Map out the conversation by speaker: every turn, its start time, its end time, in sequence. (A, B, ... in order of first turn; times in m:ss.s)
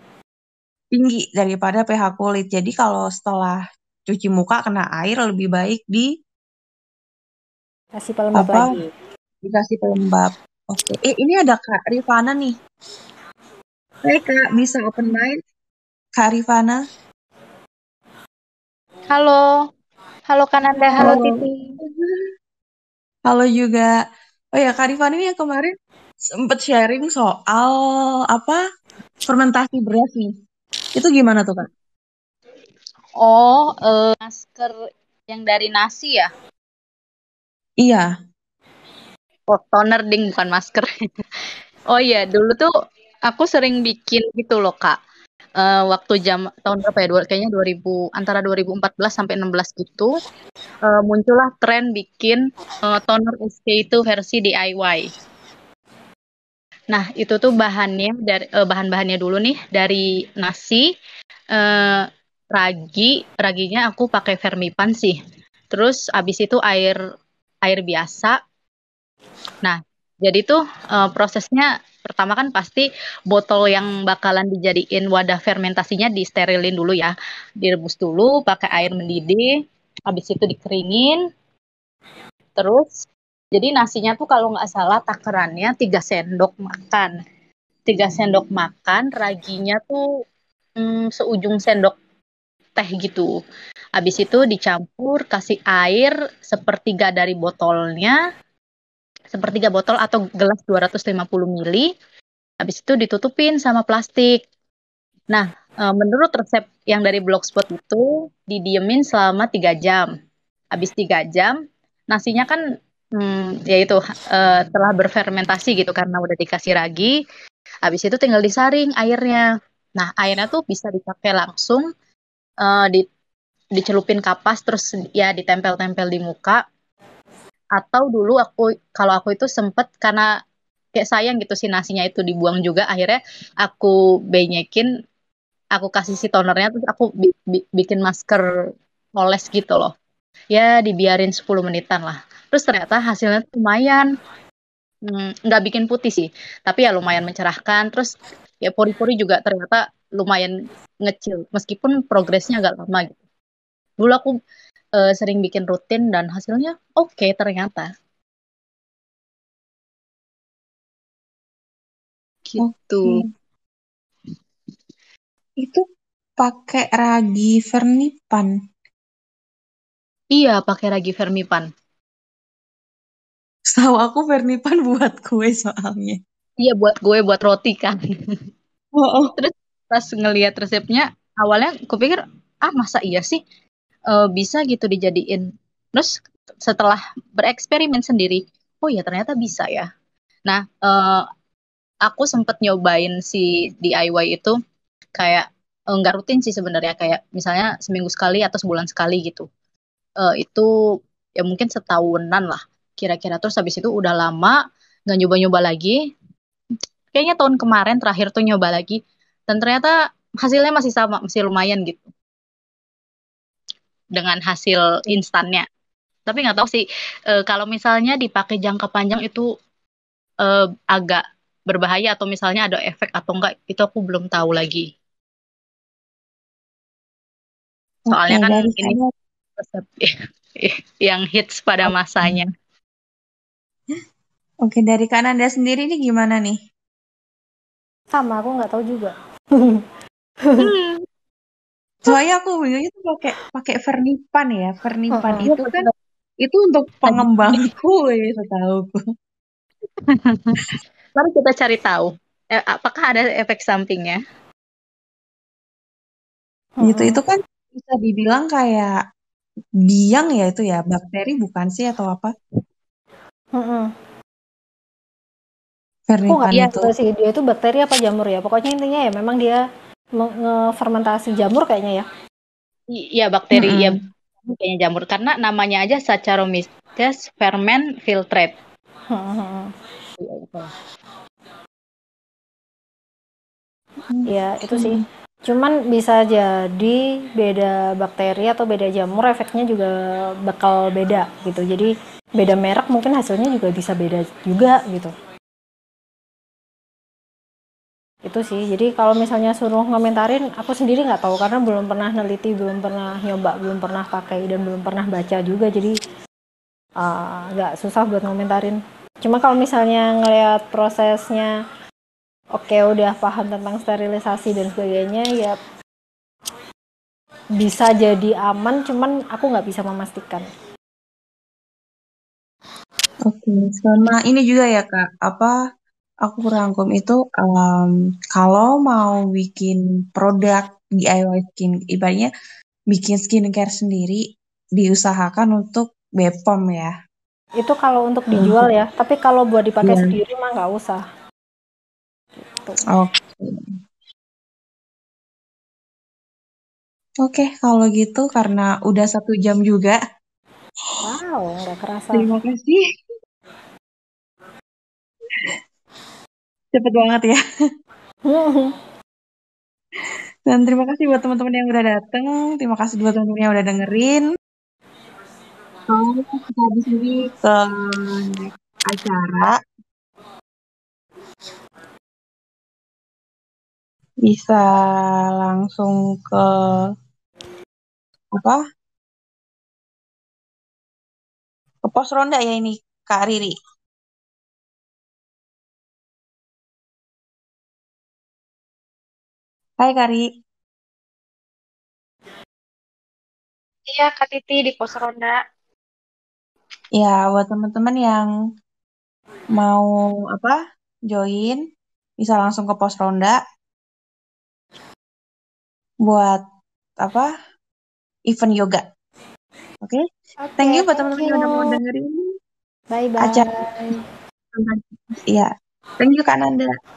0:00.9-0:06.1 A
0:08.0-0:08.9 B
0:08.4-0:08.7 A
0:09.4-0:12.6 A
0:14.0-0:15.4 A
0:16.2-0:16.8 A
0:19.1-0:19.4 C
0:20.3-0:21.3 D
0:20.6-0:21.0 C
0:20.9-0:21.3 B
0:21.0-0:21.4 A
0:23.3-0:23.9 A
0:24.5-0:25.7 A
0:26.3-0:28.6 A
0:29.2-0:30.3 A
0:30.9-0:31.7 A
0:33.2-0:36.3 C
0:37.8-0:38.1 A
0:39.5-0:40.9 C
0:41.9-0:42.7 C
0:43.3-0:45.0 C
0:45.6-0:50.1 C
0:50.8-0:55.1 C
0:56.9-1:00.9 C
1:01.5-1:05.2 C
1:05.7-1:07.0 C
1:07.6-1:08.4 C
1:09.6-1:19.5 C
1:20.1-1:21.2 C
1:22.6-1:27.1 C
1:27.9-1:30.0 C
1:30.8-1:31.9 C
1:32.8-1:33.3 C
1:34.0-1:38.2 C
1:39.3-1:41.9 C
1:42.6-1:44.4 C
1:45.3-1:50.1 C
1:50.7-1:51.6 C
1:52.1-1:52.6 C
1:53.2-1:57.1 C
1:57.8-1:59.5 C
2:00.0-2:01.9 C
2:02.6-2:03.0 C
2:03.8-2:06.6 C
2:07.8-2:10.3 C
2:11.0-2:14.9 C
2:15.7-2:18.4 C
2:19.2-2:19.9 C
2:20.5-2:24.1 C
2:25.1-2:30.5 C
2:31.0-2:33.2 C
2:34.0-2:34.3 C
2:35.0-2:37.9 C
2:42.4-2:43.2 C
2:42.6-2:43.3 A
2:46.4-2:48.5 A
2:50.3-2:51.7 C
2:53.7-2:56.2 A
2:56.6-2:58.4 C
2:59.0-2:59.3 A
2:59.3-3:03.4 C
3:04.1-3:09.9 C
3:10.4-3:11.3 C
3:12.0-3:14.6 C
3:15.2-3:19.5 C
3:20.2-3:20.7 C
3:21.4-3:24.6 C
3:25.1-3:26.0 C
3:27.1-3:32.1 C
3:34.2-3:35.6 C
3:36.3-3:36.8 C
3:37.3-3:39.4 C
3:40.4-3:44.9 C
3:48.1-3:49.1 A
3:48.1-3:49.0 C
3:49.6-3:52.5 C
3:51.8-3:52.4 A
3:54.6-3:56.6 A
3:58.1-3:59.8 B
4:00.6-4:01.0 C
4:02.0-4:05.9 A
4:05.1-4:05.6 B
4:05.4-4:05.7 C
4:06.4-4:09.0 A
4:07.0-4:07.7 C
4:10.1-4:14.2 C
4:16.8-4:17.2 B
4:16.8-4:18.9 A
4:19.9-4:22.3 A
4:23.6-4:23.9 B
4:26.1-4:26.9 A
4:26.3-4:29.6 B
4:30.2-4:32.0 B
4:32.9-4:38.5 C
4:33.5-4:34.0 A
4:39.1-4:39.7 B
4:40.2-4:40.7 C
4:44.1-4:45.0 A
4:44.3-4:49.9 B
4:50.4-4:55.1 B
4:58.2-5:06.0 B
5:07.0-5:11.5 B
5:12.6-5:15.6 B
5:17.6-5:20.5 B
5:23.3-5:25.6 A
5:26.2-5:32.3 A
5:32.9-5:34.2 A
5:34.8-5:36.9 A
5:37.6-5:41.0 B
5:38.3-5:38.6 A
5:39.8-5:40.1 A
5:42.4-5:42.8 B
5:42.9-5:43.7 A
5:47.2-5:50.0 A
5:51.0-5:52.3 B
5:52.1-5:52.8 A
5:56.7-5:57.4 A
5:58.3-5:58.7 B
6:00.5-6:04.2 A
6:05.9-6:09.6 A
6:14.2-6:16.9 A
6:18.3-6:18.6 A
6:21.8-6:23.6 A
6:29.8-6:30.2 A
6:33.9-6:35.4 D
6:37.0-6:38.3 A
6:39.6-6:40.6 A
6:41.1-6:41.6 A
6:42.2-6:43.4 A
6:46.0-6:46.4 A
6:47.0-6:47.3 A
6:48.3-6:48.8 A
6:50.4-6:51.8 B
6:50.6-6:52.2 A
6:52.9-6:54.0 B
6:53.2-6:53.5 A
6:54.5-6:56.7 A